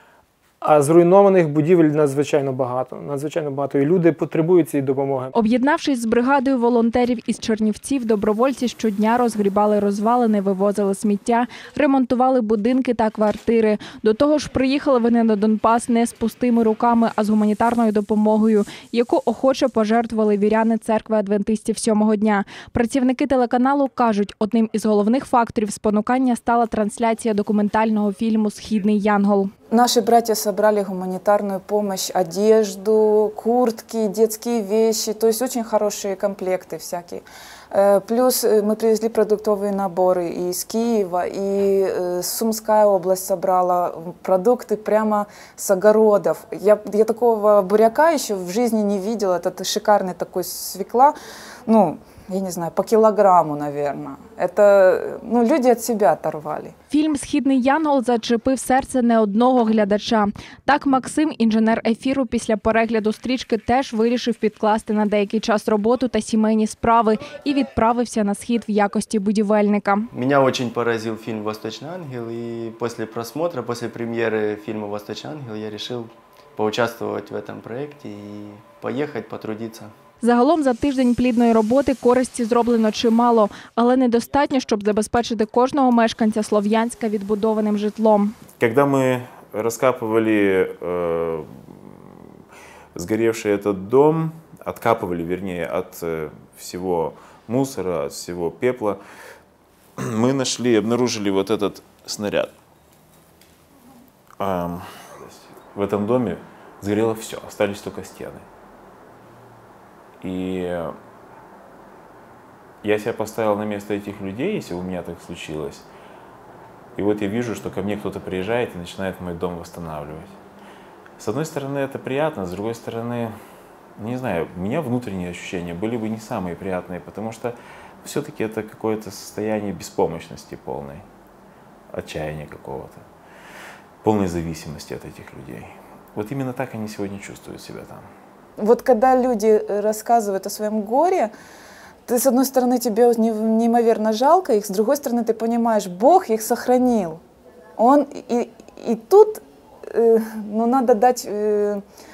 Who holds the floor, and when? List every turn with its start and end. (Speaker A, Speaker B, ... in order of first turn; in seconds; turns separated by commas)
Speaker A: 0.6-5.3, Speaker B: 5.3-29.5, Speaker C: 29.7-51.1, Speaker C: 51.7-56.7, Speaker B: 56.9-70.1, Speaker D: 70.1-79.9, Speaker B: 80.2-88.3, Speaker E: 88.6-91.9, Speaker E: 92.9-99.0, Speaker E: 100.0-102.5, Speaker E: 104.4-108.4, Speaker E: 110.2-110.9, Speaker E: 112.8-115.8, Speaker E: 117.0-120.3, Speaker E: 121.2-123.3, Speaker E: 124.0-131.0, Speaker E: 131.9-133.0, Speaker E: 134.0-138.1, Speaker C: 138.6-141.3, Speaker C: 142.1-147.2, Speaker C: 147.8-151.8